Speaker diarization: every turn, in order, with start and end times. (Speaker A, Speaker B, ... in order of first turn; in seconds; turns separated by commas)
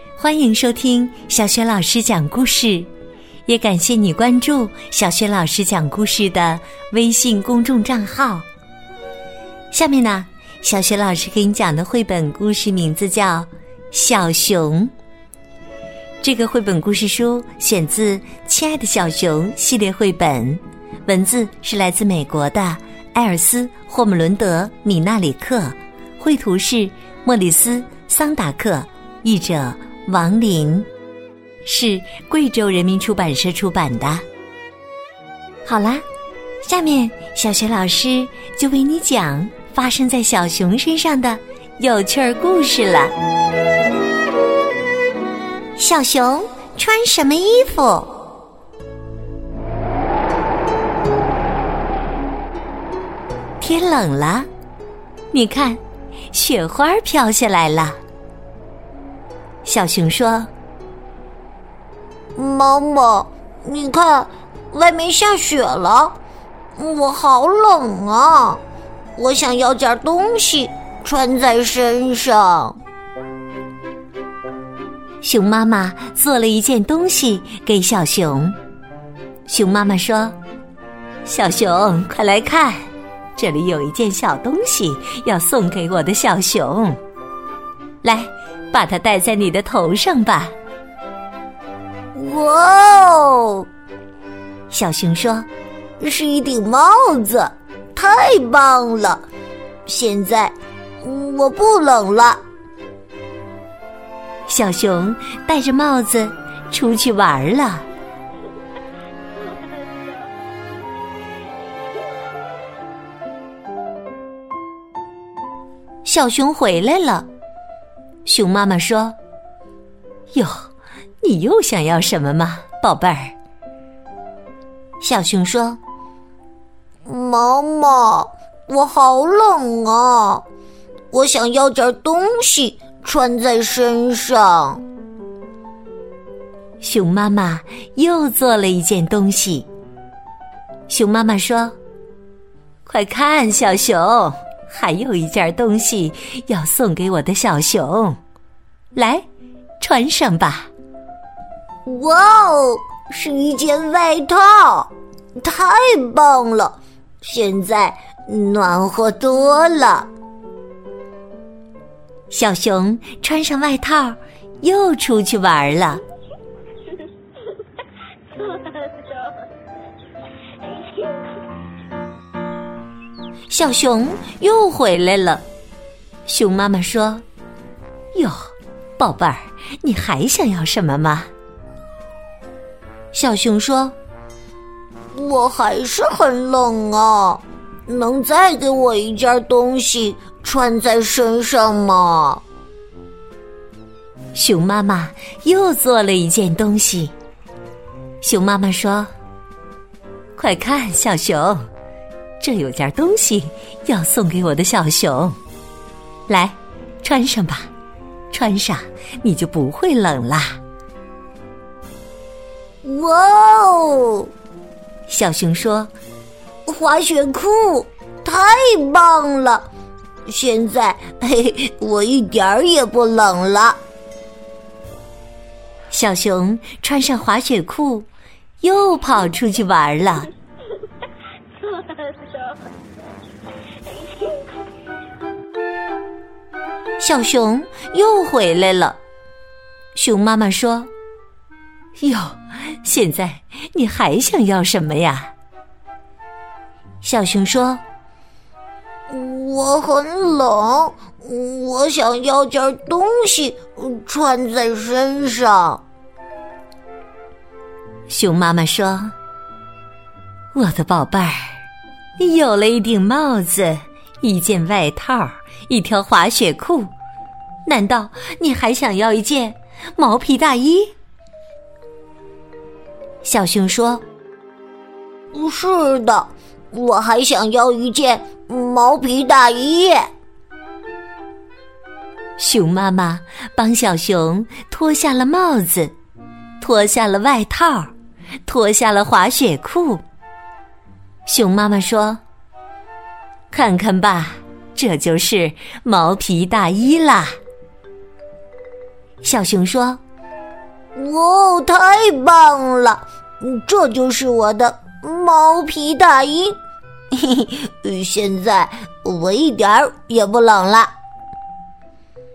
Speaker A: 0.2-2.9, Speaker A: 3.5-8.4, Speaker A: 9.7-14.9, Speaker A: 16.2-30.9, Speaker A: 31.6-34.2, Speaker A: 35.6-36.0, Speaker A: 36.6-43.1, Speaker A: 45.8-48.1, Speaker A: 53.6-54.5, Speaker A: 55.3-55.8, Speaker A: 56.3-58.0, Speaker A: 59.6-60.5, Speaker B: 62.3-66.2, Speaker B: 66.7-68.6, Speaker B: 69.1-72.8, Speaker A: 75.2-78.5, Speaker A: 79.5-80.4, Speaker A: 81.2-87.0, Speaker A: 88.0-90.5, Speaker B: 92.1-93.7, Speaker A: 94.7-95.5, Speaker B: 96.0-99.2, Speaker B: 99.8-102.4, Speaker A: 104.5-107.9, Speaker A: 116.0-117.3, Speaker A: 118.2-119.2, Speaker A: 120.3-120.7, Speaker A: 121.2-123.3, Speaker A: 125.0-125.8, Speaker B: 127.0-130.4, Speaker B: 131.1-134.8, Speaker A: 136.8-139.7, Speaker A: 140.9-141.7, Speaker A: 142.8-148.2, Speaker A: 148.9-149.2, Speaker A: 149.8-150.7, Speaker B: 151.8-160.1, Speaker A: 162.3-166.0, Speaker A: 173.5-175.4, Speaker A: 176.2-177.2, Speaker A: 178.1-181.3, Speaker A: 183.1-183.9, Speaker B: 185.1-192.4, Speaker A: 194.3-197.1, Speaker A: 198.2-199.1, Speaker A: 200.3-201.6, Speaker A: 202.4-205.4, Speaker A: 206.3-207.7, Speaker A: 208.3-210.6, Speaker B: 212.8-214.3, Speaker A: 215.1-215.9, Speaker B: 216.6-219.7, Speaker B: 220.2-223.8, Speaker A: 225.9-228.1, Speaker A: 228.6-230.3, Speaker A: 237.0-239.0, Speaker A: 239.9-240.9, Speaker A: 242.0-245.3, Speaker A: 247.0-247.8, Speaker B: 249.1-255.8, Speaker A: 258.1-259.1, Speaker A: 260.5-261.6, Speaker A: 262.2-266.9, Speaker A: 267.6-270.9, Speaker A: 273.2-274.0, Speaker B: 275.3-280.1, Speaker A: 282.4-285.9, Speaker A: 286.6-287.9, Speaker A: 288.4-290.0, Speaker A: 291.2-292.2, Speaker A: 293.5-297.4, Speaker A: 299.2-300.0, Speaker B: 300.9-306.6, Speaker B: 307.1-310.9